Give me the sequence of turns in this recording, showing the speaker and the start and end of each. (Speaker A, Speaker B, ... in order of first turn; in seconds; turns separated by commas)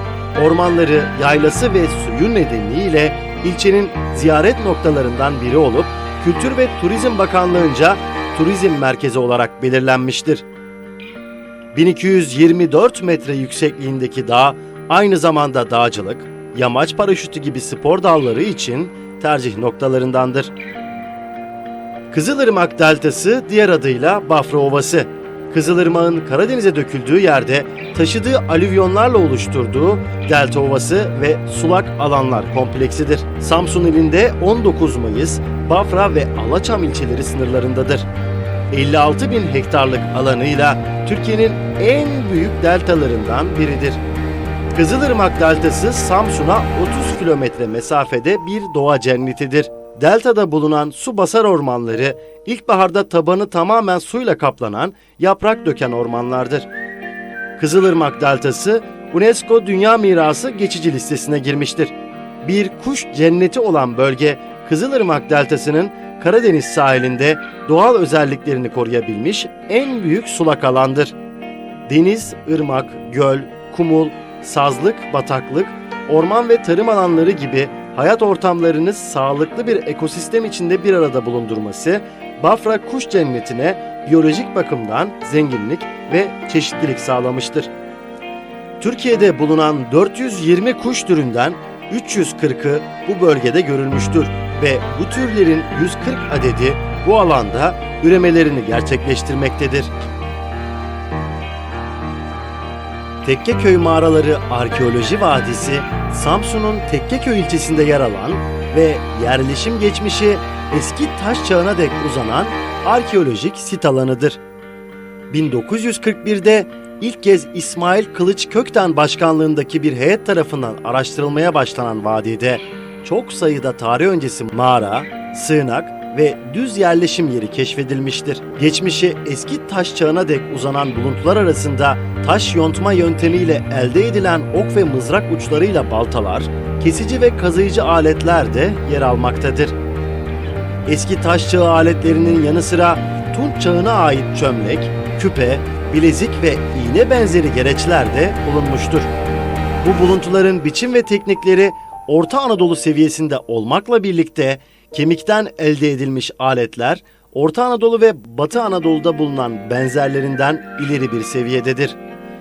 Speaker A: 0.3-10.4, Speaker A: 11.7-20.5, Speaker A: 22.1-38.0, Speaker A: 38.7-44.0, Speaker A: 44.7-56.7, Speaker A: 57.6-71.1, Speaker A: 71.9-87.7, Speaker A: 88.8-99.9, Speaker A: 103.2-114.4, Speaker A: 115.3-139.7, Speaker A: 140.8-149.1, Speaker A: 149.8-162.0